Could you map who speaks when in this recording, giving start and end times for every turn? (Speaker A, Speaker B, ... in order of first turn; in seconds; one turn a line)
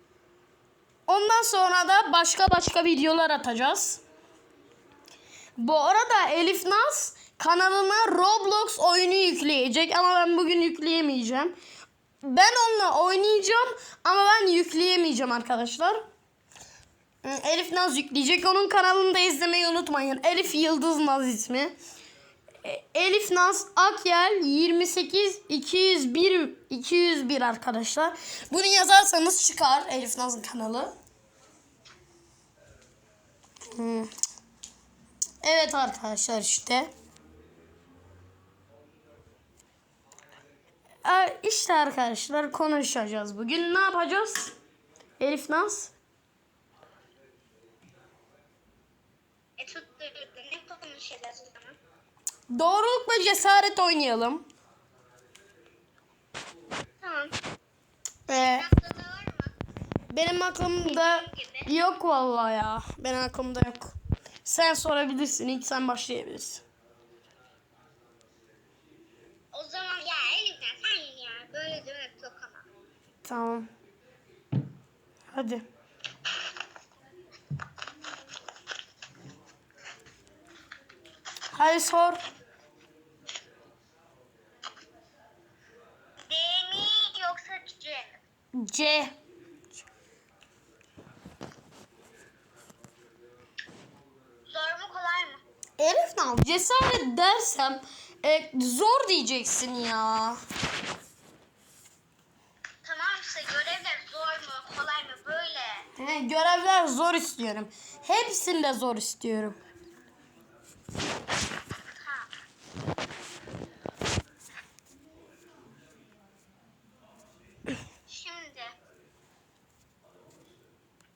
Speaker A: 1.1-4.0
Speaker A: 5.6-11.6
Speaker A: 12.2-16.1
Speaker A: 17.2-21.7
Speaker A: 22.6-30.9
Speaker A: 33.7-34.1
Speaker A: 35.4-36.9
Speaker A: 41.0-44.5
Speaker A: 45.2-45.9
Speaker B: 49.6-51.8
Speaker A: 52.5-54.5
Speaker B: 57.0-57.4
Speaker A: 58.3-58.7
Speaker B: 58.3-59.5
Speaker A: 60.1-66.6
Speaker B: 60.8-61.8
Speaker B: 69.5-72.7
Speaker A: 73.2-73.7
Speaker A: 75.3-75.7
Speaker A: 81.5-82.2
Speaker B: 86.3-88.2
Speaker A: 88.5-89.2
Speaker B: 94.5-95.4
Speaker A: 95.8-100.4
Speaker B: 102.8-105.9
Speaker A: 106.0-109.6
Speaker B: 112.0-112.3
Speaker B: 118.1-118.8